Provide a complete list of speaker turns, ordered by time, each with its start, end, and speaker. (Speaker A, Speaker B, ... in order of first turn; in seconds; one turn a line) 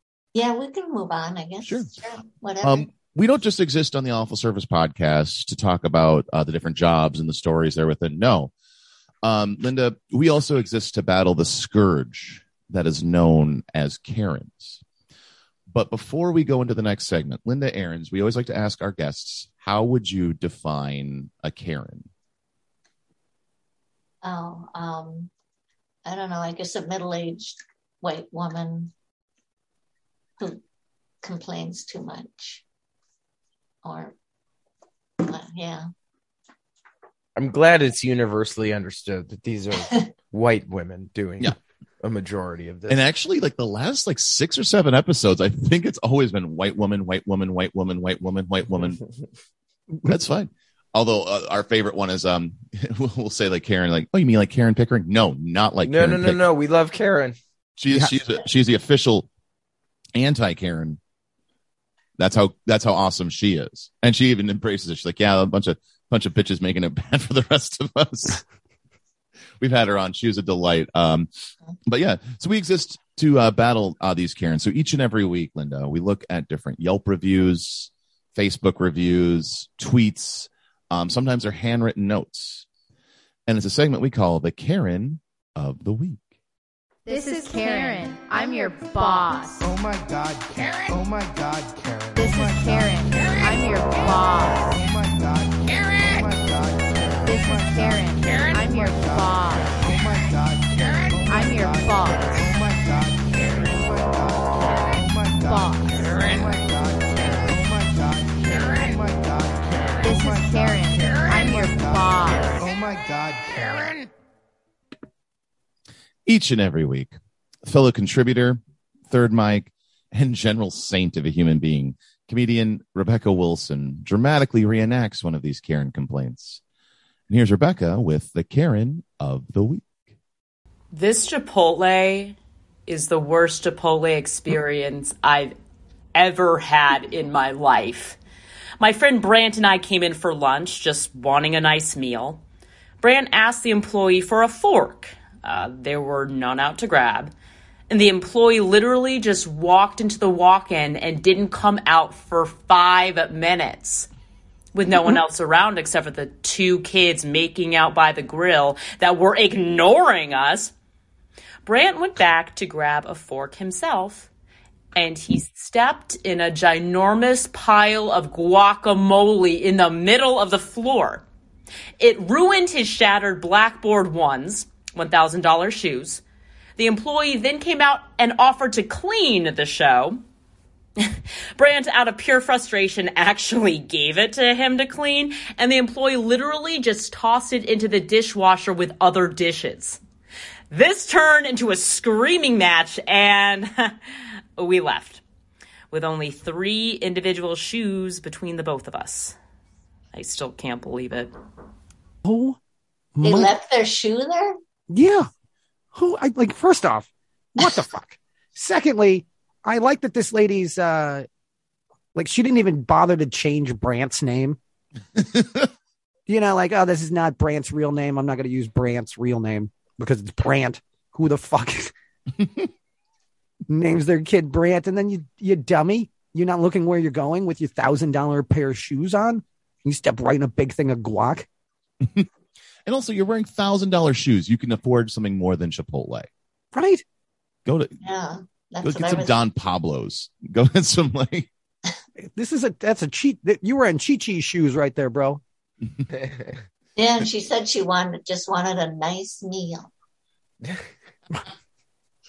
Speaker A: 0.3-2.9
Speaker B: 1.6-1.9
Speaker B: 2.6-8.5
Speaker B: 9.2-14.8
Speaker B: 15.7-22.1
Speaker A: 24.2-25.3
Speaker A: 26.1-28.9
Speaker A: 31.2-32.6
Speaker A: 33.8-34.1
Speaker A: 35.2-35.9
Speaker C: 37.4-43.0
Speaker B: 42.9-49.0
Speaker B: 50.0-56.4
Speaker C: 55.8-57.4
Speaker B: 57.8-59.3
Speaker B: 60.1-61.0
Speaker B: 62.2-68.4
Speaker B: 69.6-71.3
Speaker B: 71.9-82.7
Speaker B: 83.5-86.2
Speaker D: 87.1-89.7
Speaker E: 87.5-87.8
Speaker E: 89.6-94.1
Speaker D: 92.2-94.8
Speaker E: 94.7-99.2
Speaker D: 97.2-99.8
Speaker E: 99.8-112.0
Speaker D: 101.2-102.5
Speaker D: 105.5-106.2
Speaker D: 110.0-112.7
Speaker E: 112.6-114.0
Speaker B: 116.3-126.6
Speaker B: 127.3-129.9
Speaker F: 130.9-132.4
Speaker F: 132.9-135.6
Speaker F: 136.2-138.2
Speaker F: 138.8-142.4
Speaker F: 143.0-147.3
Speaker F: 147.9-154.1
Speaker F: 154.7-160.7
Speaker F: 161.7-164.3
Speaker F: 164.9-171.2
Speaker F: 172.0-176.2
Speaker F: 176.8-180.2
Speaker F: 181.0-190.0
Speaker F: 190.7-194.0
Speaker F: 194.6-195.2
Speaker F: 195.9-199.4
Speaker F: 200.1-201.3
Speaker G: 202.2-202.6
Speaker G: 203.2-203.5
Speaker A: 203.2-204.6
Speaker G: 204.9-205.3
Speaker G: 205.9-211.3
Speaker G: 212.2-214.6
Speaker G: 216.3-221.9
Speaker G: 223.7-231.5
Speaker B: 232.9-236.3
Speaker G: 236.7-237.0
Speaker B: 237.7-238.0
Speaker A: 238.0-239.3
Speaker B: 238.8-241.5
Speaker G: 242.2-245.4
Speaker C: 246.2-246.6
Speaker A: 247.0-249.9